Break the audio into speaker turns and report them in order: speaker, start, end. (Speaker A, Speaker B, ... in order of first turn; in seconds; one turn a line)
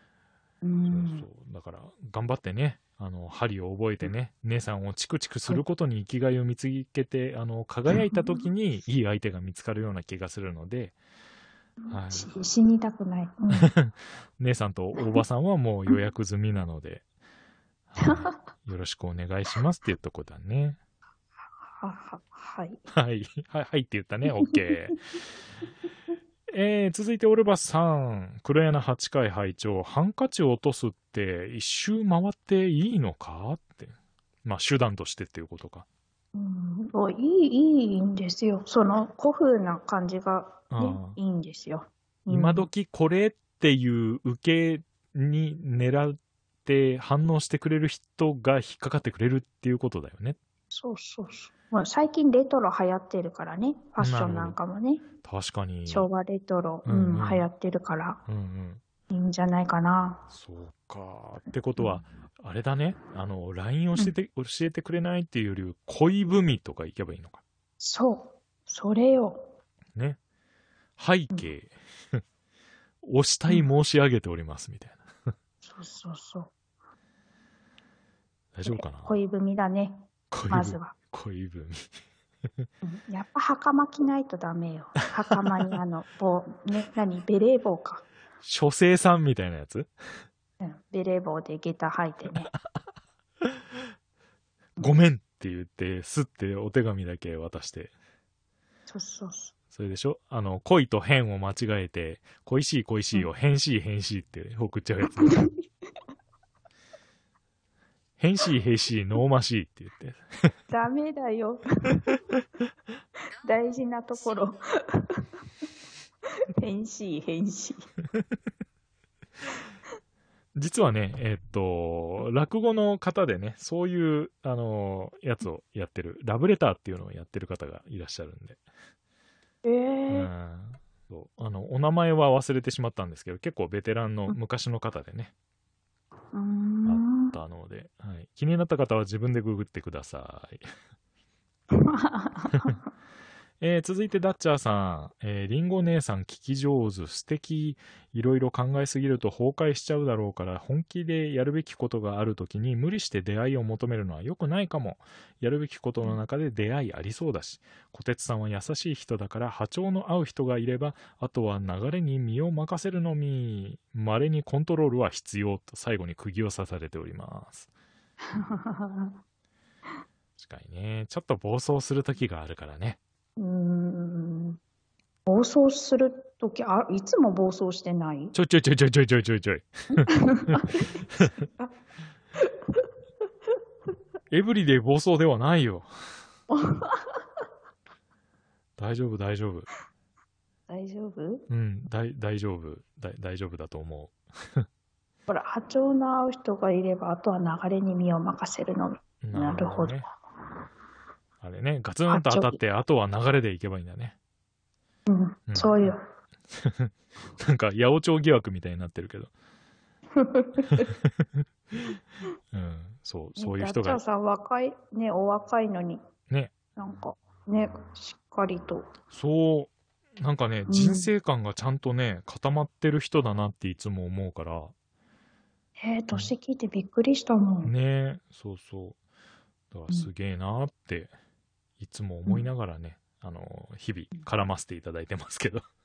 Speaker A: 0.6-1.3
Speaker B: 0.9-11.0
Speaker A: 8.1-8.4
Speaker A: 11.8-13.7
Speaker B: 11.9-12.3
Speaker B: 13.6-17.0
Speaker B: 17.9-20.8
Speaker A: 18.0-18.3
Speaker A: 21.6-22.8
Speaker B: 22.9-25.0
Speaker B: 26.5-35.8
Speaker A: 36.3-42.7
Speaker B: 40.7-41.2
Speaker B: 42.3-50.4
Speaker A: 50.7-55.0
Speaker B: 54.0-54.6
Speaker B: 55.2-56.1
Speaker A: 55.9-58.2
Speaker B: 56.9-57.5
Speaker B: 58.3-58.8
Speaker A: 59.1-60.2
Speaker B: 60.3-67.4
Speaker A: 67.8-69.5
Speaker B: 71.0-72.2
Speaker B: 73.0-75.0
Speaker A: 75.6-76.5
Speaker B: 78.5-79.1
Speaker A: 78.6-80.9
Speaker B: 80.3-81.9
Speaker A: 82.8-88.0
Speaker B: 88.4-89.9
Speaker A: 90.6-92.5
Speaker B: 94.8-97.9
Speaker A: 98.9-99.5
Speaker B: 99.7-105.4
Speaker A: 105.2-105.5
Speaker B: 108.2-110.5
Speaker A: 110.7-112.1
Speaker A: 113.4-115.2
Speaker A: 116.6-117.9
Speaker B: 120.5-128.6
Speaker A: 129.6-130.3
Speaker B: 130.1-135.3
Speaker A: 136.3-137.3
Speaker B: 136.8-140.7
Speaker A: 141.7-142.8
Speaker B: 143.6-167.7
Speaker A: 168.3-169.2
Speaker B: 170.4-173.0
Speaker A: 173.4-174.6
Speaker A: 175.3-178.3
Speaker B: 178.3-181.4
Speaker A: 179.9-181.7
Speaker B: 184.3-185.9
Speaker A: 186.5-187.1
Speaker B: 188.8-189.7
Speaker A: 190.7-191.5
Speaker B: 191.5-194.7
Speaker A: 195.3-200.1
Speaker B: 199.2-200.1
Speaker B: 201.4-204.2
Speaker A: 202.1-202.6
Speaker A: 205.1-206.0
Speaker B: 205.5-205.9
Speaker B: 206.5-209.3
Speaker A: 210.2-210.9
Speaker B: 210.7-211.8
Speaker B: 212.5-214.0
Speaker A: 213.4-216.0
Speaker A: 216.8-218.9
Speaker B: 219.1-224.7
Speaker A: 220.7-221.1
Speaker A: 225.8-227.7
Speaker B: 227.6-229.0
Speaker B: 229.7-231.1
Speaker B: 231.8-235.6